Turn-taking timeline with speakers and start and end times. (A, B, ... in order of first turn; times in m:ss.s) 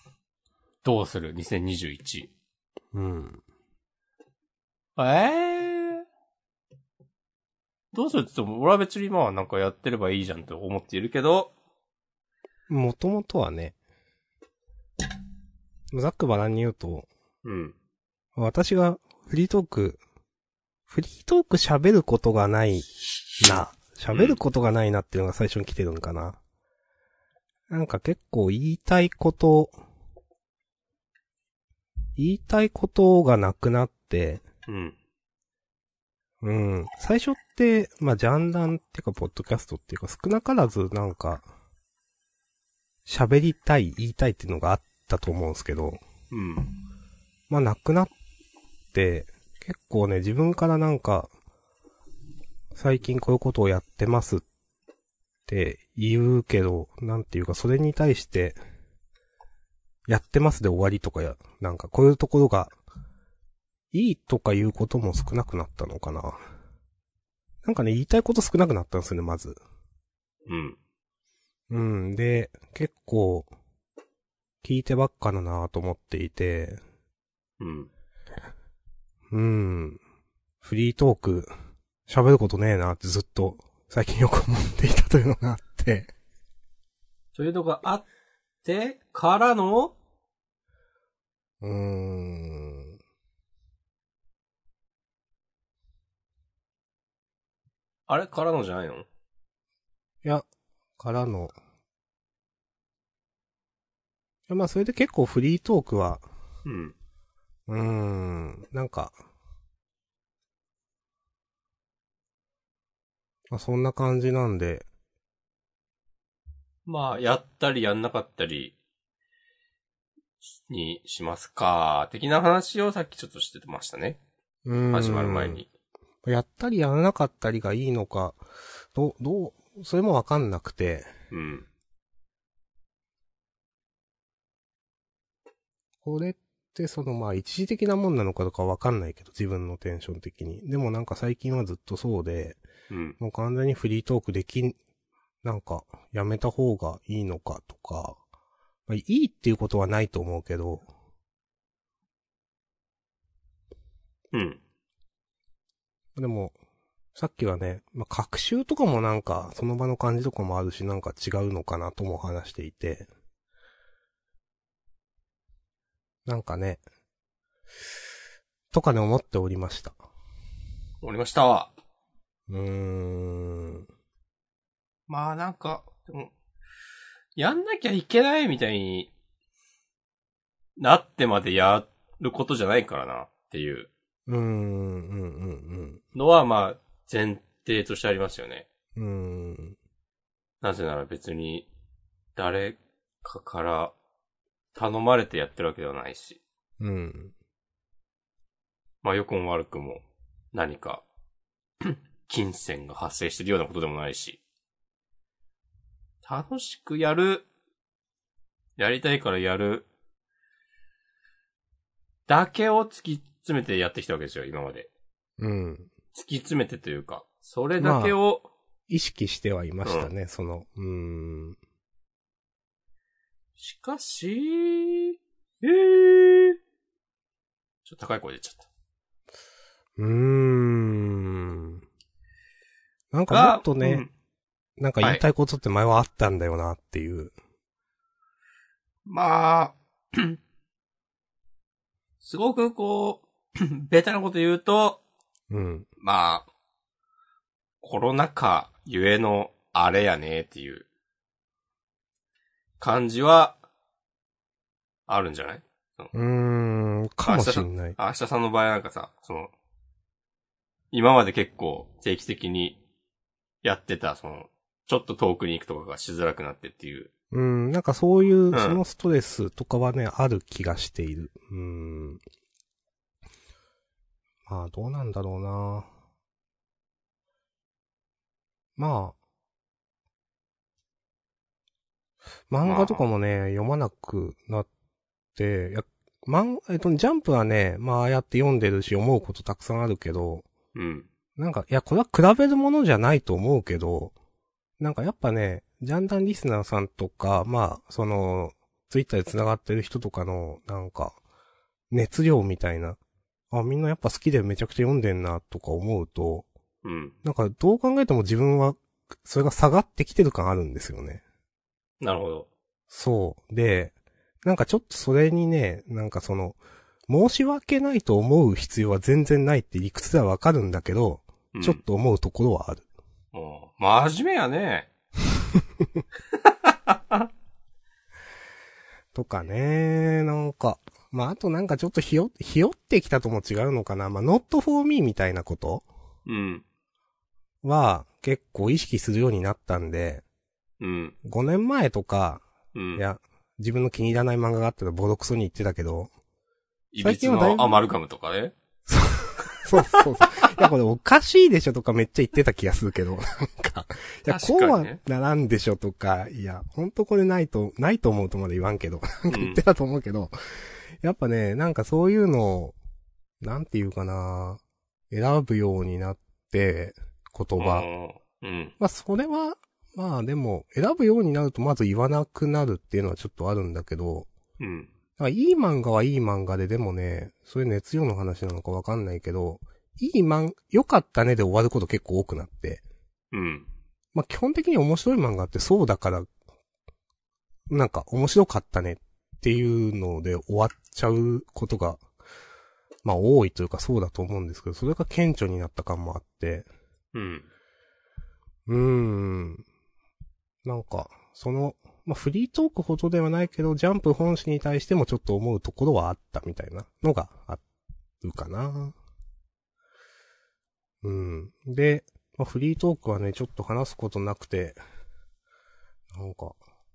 0:00.8-0:02.3 A
0:02.9-0:03.4 B
0:05.0-0:06.0 A
0:07.9-0:11.5 A
0:12.7-0:13.7 B
0:15.9-0:17.1 B
0:17.4-0:17.7 A
0:18.4-0:20.0 B
0:20.9-0:26.4 B
0:24.1-0:24.4 A
0:27.7-0:29.7 B
0:32.2-0:34.4 B
0:34.7-0:35.0 A
0:36.4-0:41.4 B
0:43.0-0:46.0 B
0:46.3-0:46.7 A
0:47.5-0:48.1 B
0:48.9-0:51.3 B
0:52.7-0:54.4 B
0:55.5-0:58.6 B
1:00.1-1:02.8 B
1:03.9-1:06.4 B
1:07.6-1:09.6 B
1:10.5-1:10.8 A
1:11.7-1:13.5 B
1:14.6-1:16.8 B
1:17.6-1:17.9 A
1:19.3-1:20.0 B
1:20.6-1:21.5 B
1:22.1-1:26.1 B
1:27.4-1:28.0 A
1:28.6-1:30.0 A
1:31.6-1:33.0 B
1:38.1-1:39.1 A
1:41.0-1:41.6 B
1:44.5-1:46.2 B
1:46.6-1:46.9 A
1:47.7-1:49.2 B
1:53.5-1:54.9 B
1:56.8-1:58.7 A
2:00.4-2:04.2 A
2:04.6-2:05.6 B
2:04.9-2:05.7 A
2:06.2-2:08.4 B
2:08.9-2:11.1 B
2:11.3-2:11.6 A
2:16.0-2:22.6 B
2:22.9-2:23.2 A
2:23.2-2:24.8 B
2:25.4-2:28.2 B
2:28.9-2:30.9 B
2:34.3-2:34.6 A
2:36.2-2:36.5 B
2:37.1-2:43.1 B
2:46.2-2:46.8 B
2:48.7-2:50.0 B
2:51.0-2:51.7 A
2:52.5-2:53.9 B
2:55.1-2:56.3 A
2:57.4-2:59.1 A
3:00.8-3:03.9 A
3:04.3-3:06.0 B
3:06.1-3:08.6 A
3:09.0-3:09.8 B
3:10.6-3:11.7 A
3:12.4-3:13.9 A
3:14.7-3:16.4 A
3:16.8-3:17.3 B
3:19.0-3:21.0 A
3:21.8-3:24.4 A
3:26.2-3:27.4 A
3:28.8-3:29.9 A
3:32.3-3:34.9 A
3:35.4-3:35.9 B
3:36.1-3:38.5 A
3:37.8-3:38.2 B
3:38.9-3:41.6 B
3:39.8-3:40.1 A
3:43.6-3:46.6 A
3:47.8-3:48.6 A
3:50.0-3:51.8 B
3:53.1-3:54.0 B
3:53.3-3:54.1 A
3:54.8-3:57.3 B
3:59.1-4:00.4 A
4:02.2-4:05.0 A
4:05.5-4:05.9 B
4:06.0-4:06.5 A
4:07.8-4:10.8 A
4:12.8-4:13.6 A
4:15.1-4:16.1 A
4:16.1-4:18.0 B
4:17.2-4:19.5 A
4:20.9-4:22.8 A
4:23.6-4:27.1 A
4:27.3-4:32.2 B
4:28.5-4:28.8 A
4:34.5-4:35.9 B
4:38.8-4:39.2 B
4:42.5-4:44.7 B
4:42.6-4:43.0 A
4:45.4-4:50.5 B
4:50.7-4:51.1 A
4:51.4-4:54.1 B
4:54.8-5:01.2 B
5:01.9-5:03.0 B
5:03.5-5:06.5 B
5:06.8-5:07.1 A
5:07.2-5:11.2 B
5:12.0-5:12.5 A
5:12.9-5:22.8 B
5:21.5-5:21.8 A
5:23.3-5:24.9 A
5:26.4-5:27.3 A
5:29.1-5:35.8 B
5:36.2-5:36.6 A
5:37.6-5:40.2 B
5:40.8-5:41.1 A
5:41.2-5:42.4 B
5:42.7-5:43.0 A
5:43.0-5:46.1 B
5:46.9-5:48.5 A
5:47.0-5:47.7 B
5:48.9-6:00.3 B
5:54.3-5:55.0 A
5:59.3-5:59.6 A
6:01.0-6:02.8 B
6:03.4-6:07.9 B
6:07.6-6:08.7 A
6:08.8-6:14.3 B
6:14.6-6:14.9 A
6:15.2-6:22.8 B
6:23.3-6:23.7 A
6:24.1-6:26.3 B
6:27.7-6:32.0 B
6:33.0-6:36.7 B
6:37.1-6:37.4 A
6:38.7-6:39.6 B
6:40.6-6:47.6 B
6:48.2-6:48.9 B
6:51.0-6:54.8 B
6:56.1-6:56.6 B